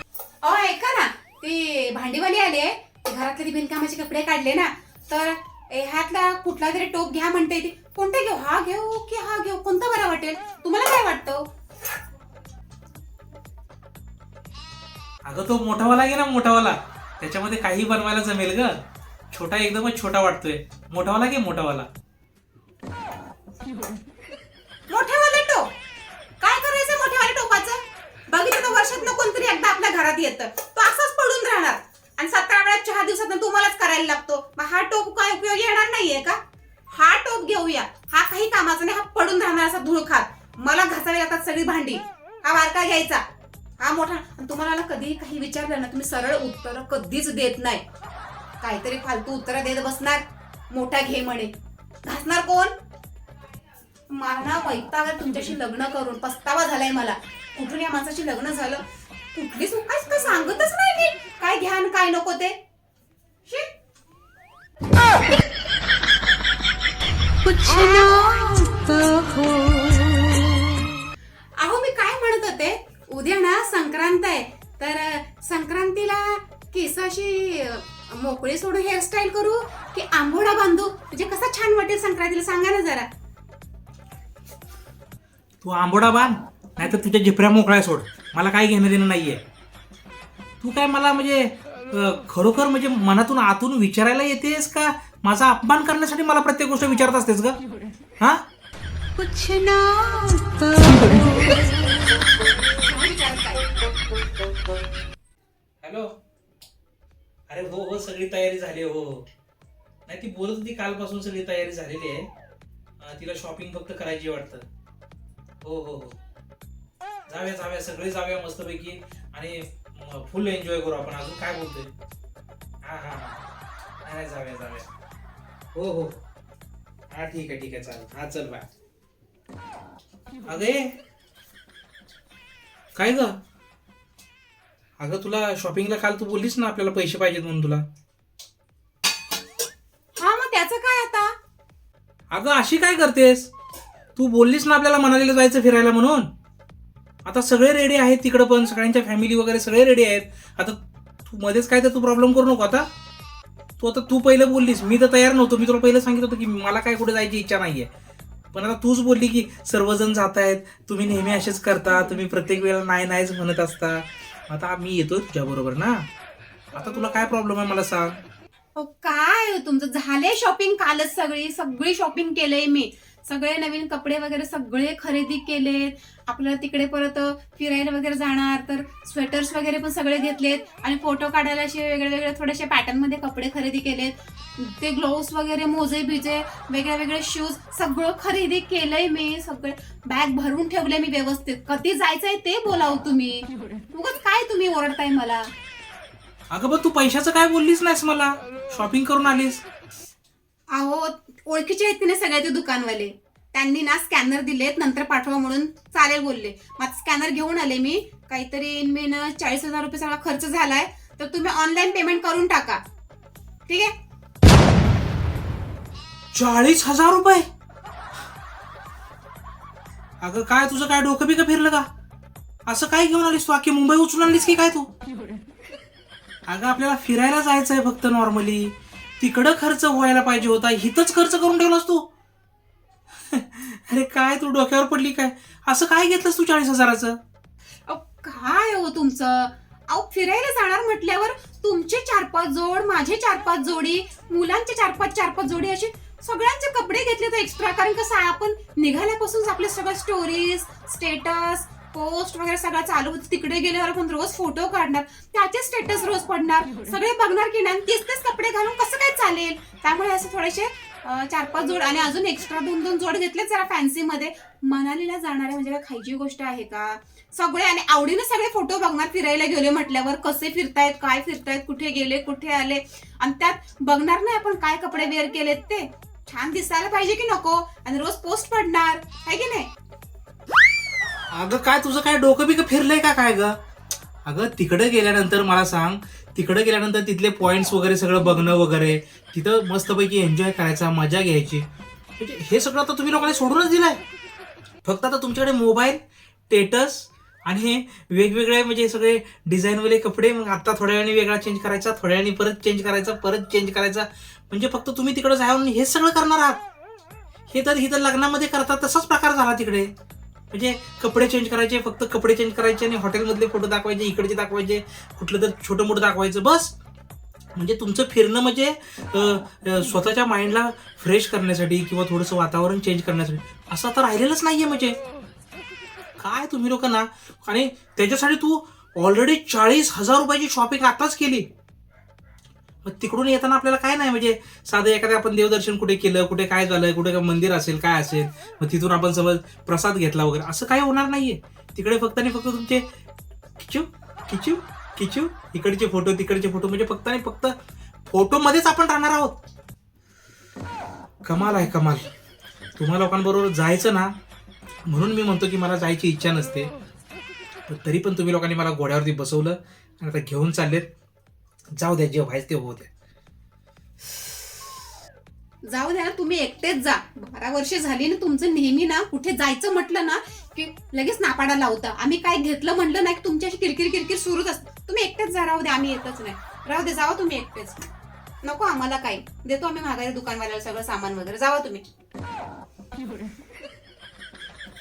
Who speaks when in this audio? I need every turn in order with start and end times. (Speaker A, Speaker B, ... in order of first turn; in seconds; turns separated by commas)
Speaker A: 0.4-11.4, Speaker B: 15.2-18.8, Speaker B: 19.3-21.9, Speaker A: 24.9-25.7, Speaker A: 26.4-36.4, Speaker A: 36.9-43.2, Speaker A: 43.8-47.8, Speaker A: 48.6-51.5, Speaker A: 52.0-52.7, Speaker A: 54.1-58.8, Speaker A: 59.3-62.6, Speaker C: 67.4-70.7, Speaker A: 71.6-83.1, Speaker B: 85.6-89.4, Speaker B: 90.6-97.6, Speaker B: 98.2-98.4, Speaker C: 99.2-101.7, Speaker A: 102.7-103.7, Speaker B: 105.8-106.1, Speaker B: 107.5-109.3, Speaker B: 110.1-112.3, Speaker B: 113.0-114.7, Speaker B: 115.6-116.2, Speaker B: 117.3-121.9, Speaker B: 122.8-123.4, Speaker B: 124.0-124.9, Speaker B: 125.7-126.2, Speaker B: 127.1-128.7, Speaker B: 130.4-130.9, Speaker B: 132.9-133.4, Speaker B: 135.0-137.8, Speaker A: 140.2-141.3, Speaker B: 142.3-143.5, Speaker B: 144.2-146.3, Speaker B: 147.2-152.9, Speaker B: 153.8-157.9, Speaker B: 158.5-166.1, Speaker B: 166.7-168.2, Speaker A: 168.8-195.5, Speaker B: 196.5-199.6, Speaker A: 200.7-212.8, Speaker A: 213.7-213.9, Speaker B: 216.3-217.4, Speaker B: 220.2-221.9, Speaker B: 222.7-224.9, Speaker B: 226.5-232.1, Speaker B: 233.3-237.2, Speaker A: 237.9-279.7, Speaker B: 281.3-283.5, Speaker B: 284.2-291.6, Speaker B: 292.2-294.0, Speaker B: 294.8-306.6, Speaker B: 307.5-309.9, Speaker B: 310.5-316.7, Speaker B: 317.5-324.9, Speaker B: 326.2-331.4, Speaker B: 332.8-342.8, Speaker B: 343.6-347.5, Speaker B: 348.1-349.4, Speaker B: 351.2-352.1, Speaker B: 352.8-354.1, Speaker B: 354.9-356.7, Speaker B: 357.7-360.9, Speaker B: 361.8-362.9, Speaker A: 365.6-377.8, Speaker A: 378.4-381.8